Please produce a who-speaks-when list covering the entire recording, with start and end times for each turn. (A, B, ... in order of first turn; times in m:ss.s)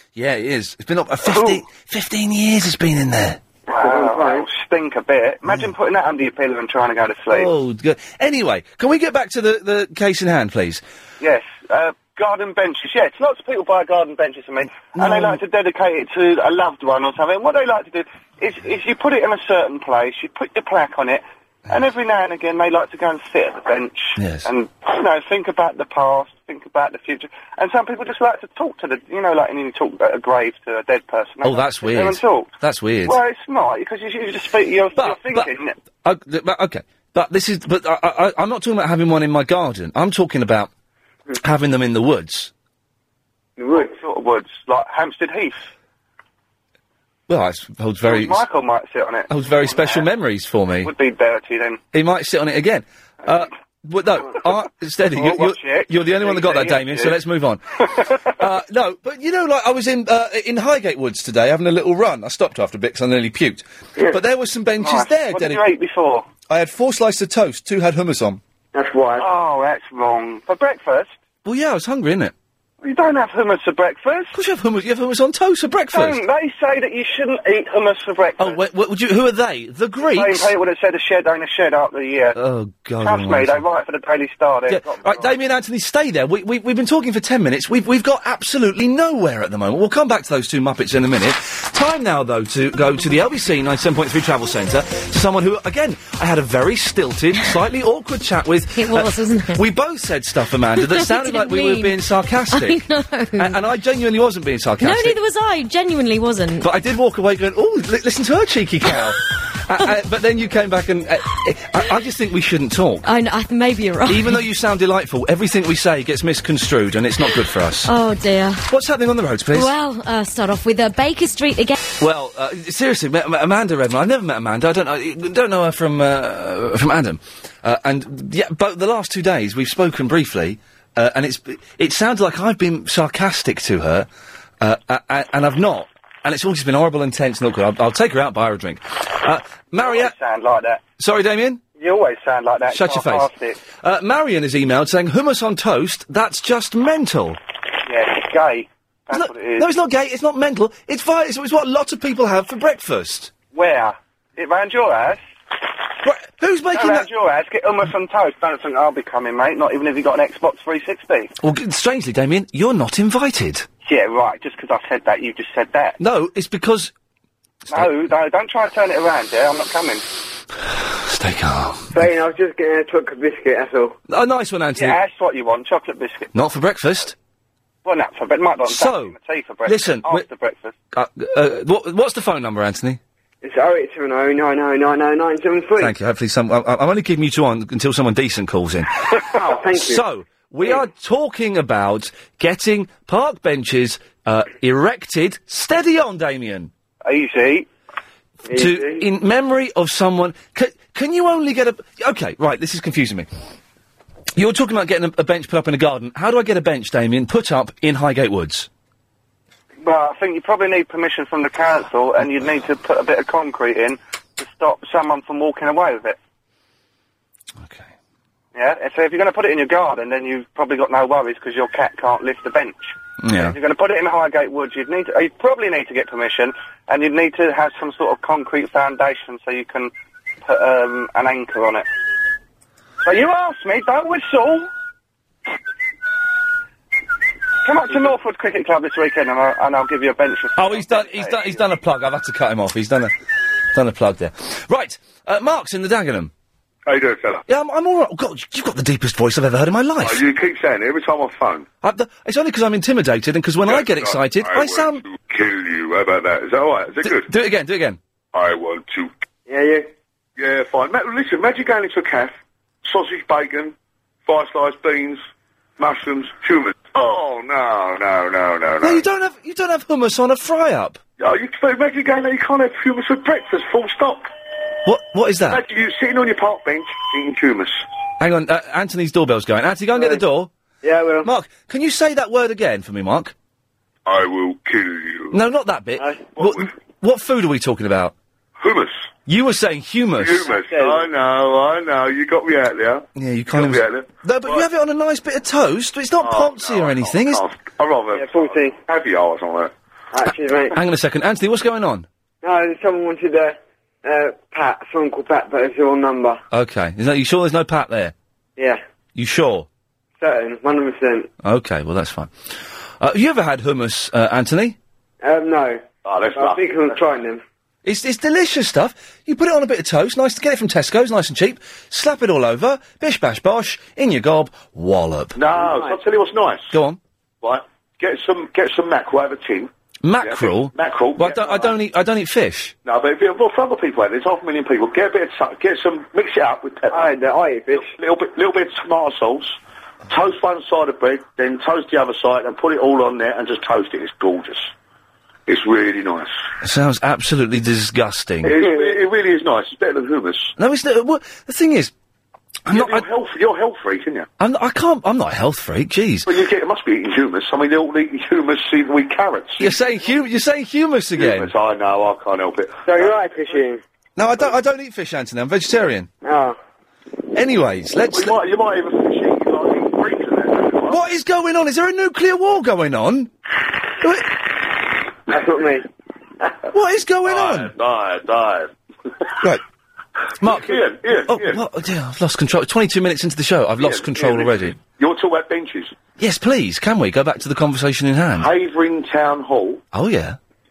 0:00.2-0:03.4 A
0:01.2-0:01.6 B
0:03.7-0:07.5 B
0:03.7-0:04.5 C
0:07.3-0:10.8 A
0:11.2-0:32.5 B
0:14.9-0:15.4 A
0:24.2-0:24.5 A
0:31.4-0:33.2 A
0:33.0-0:35.7 B
0:35.0-0:35.5 A
0:36.0-0:40.7 A
0:41.4-0:42.5 A
0:43.6-0:43.9 C
0:43.7-0:45.6 B
0:47.3-0:48.4 A
0:48.0-0:50.1 B
0:49.3-0:50.9 A
0:50.8-0:51.8 B
0:51.9-0:57.6 A
0:55.1-0:57.2 B
0:57.8-0:58.3 B
0:58.4-1:05.6 A
1:04.8-1:06.3 B
1:06.5-1:08.4 A
1:08.7-1:09.2 C
1:09.2-1:11.1 B
1:11.4-1:12.3 A
1:12.8-1:14.3 B
1:14.3-1:16.2 A
1:15.9-1:18.6 B
1:18.4-1:20.5 A
1:20.0-1:22.4 B
1:22.3-1:23.6 A
1:23.0-1:25.4 B
1:24.7-1:42.8 A
1:38.7-1:39.6 D
1:40.8-1:42.0 D
1:42.5-1:43.6 D
1:43.4-1:45.2 A
1:44.8-1:46.7 D
1:46.6-1:53.1 A
1:53.0-1:54.4 D
1:54.1-1:57.9 A
1:57.8-1:58.6 D
1:58.6-1:59.7 A
1:59.5-2:01.8 D
2:02.0-2:14.1 A
2:14.6-2:20.1 A
2:19.8-2:20.8 B
2:21.0-2:21.6 A
2:21.8-2:23.6 B
2:22.7-2:23.3 A
2:23.8-2:27.4 A
2:27.8-2:29.7 B
2:29.1-2:33.3 A
2:33.5-2:35.2 B
2:36.0-2:37.1 A
2:36.7-2:41.3 B
2:41.4-2:43.6 A
2:43.8-2:46.0 B
2:46.0-2:46.9 A
2:47.7-2:50.0 B
2:50.7-2:52.0 A
2:51.9-2:54.0 C
2:54.1-2:55.0 A
2:54.8-2:56.3 B
2:56.3-2:57.1 A
2:57.8-3:00.7 B
2:58.6-2:59.1 A
2:59.6-3:00.2 A
3:00.9-3:03.0 A
3:03.4-3:05.9 C
3:05.8-3:09.0 A
3:09.3-3:10.0 C
3:09.7-3:16.7 A
3:17.0-3:17.7 B
3:18.5-3:19.0 C
3:18.5-3:23.3 A
3:24.4-3:28.7 A
3:29.8-3:36.2 B
3:37.6-3:37.9 A
3:38.5-3:49.9 B
3:43.2-3:43.5 A
3:50.4-3:51.8 B
3:53.0-3:54.7 B
3:57.6-4:01.6 B
4:00.6-4:03.1 A
4:03.7-4:06.3 A
4:06.9-4:07.4 E
4:07.5-4:10.2 A
4:10.0-4:11.6 E
4:11.8-4:15.0 A
4:13.6-4:17.3 E
4:17.0-4:18.0 A
4:18.3-4:19.1 E
4:19.5-4:19.9 C
4:20.4-4:23.7 E
4:24.2-4:25.2 E
4:25.8-4:29.0 E
4:28.8-4:31.0 A
4:31.2-4:34.3 E
4:34.8-4:35.6 A
4:35.5-4:37.8 E
4:38.2-4:40.5 A
4:40.8-4:41.3 C
4:41.2-4:43.3 A
4:44.0-4:45.3 E
4:45.3-4:48.1 A
4:46.0-4:46.2 C
4:46.4-4:46.7 E
4:48.6-4:49.0 E
4:49.3-4:50.5 A
4:50.2-4:54.6 E
4:50.6-4:51.1 C
4:53.1-4:57.4 A
4:56.2-4:59.7 E
4:58.1-4:58.8 C
5:00.1-5:00.7 C
5:00.7-5:02.1 A
5:02.4-5:06.4 C
5:06.5-5:08.1 A
5:09.1-5:09.7 A
5:10.2-5:11.3 C
5:11.4-5:12.3 A
5:13.0-5:14.8 A
5:15.2-5:15.8 C
5:16.0-5:17.0 E
5:16.3-5:17.4 C
5:17.8-5:25.4 A
5:25.4-5:26.7 E
5:25.6-5:26.0 C
5:26.7-5:27.0 A
5:27.4-5:29.7 E
5:30.0-5:32.7 A
5:30.2-5:31.7 E
5:32.8-5:37.1 E
5:36.9-5:37.9 C
5:37.8-5:39.6 E
5:40.1-5:44.7 E
5:45.5-5:46.3 E
5:46.6-5:48.5 A
5:48.4-5:50.5 E
5:50.6-5:51.9 A
5:52.6-5:53.0 A
5:52.7-5:54.3 E
5:54.4-5:56.3 A
5:56.2-5:59.7 E
5:59.6-6:01.5 A
6:01.2-6:03.2 E
6:02.8-6:03.8 C
6:04.2-6:06.1 A
6:06.2-6:06.6 C
6:07.3-6:08.4 A
6:08.1-6:11.0 E
6:10.9-6:13.3 A
6:14.0-6:14.4 A
6:15.3-6:15.8 C
6:16.7-6:17.7 A
6:17.2-6:18.7 E
6:20.4-6:24.8 A
6:20.4-6:21.6 E
6:23.8-6:25.9 E
6:26.2-6:28.5 A
6:28.4-6:29.8 E
6:29.9-6:30.4 A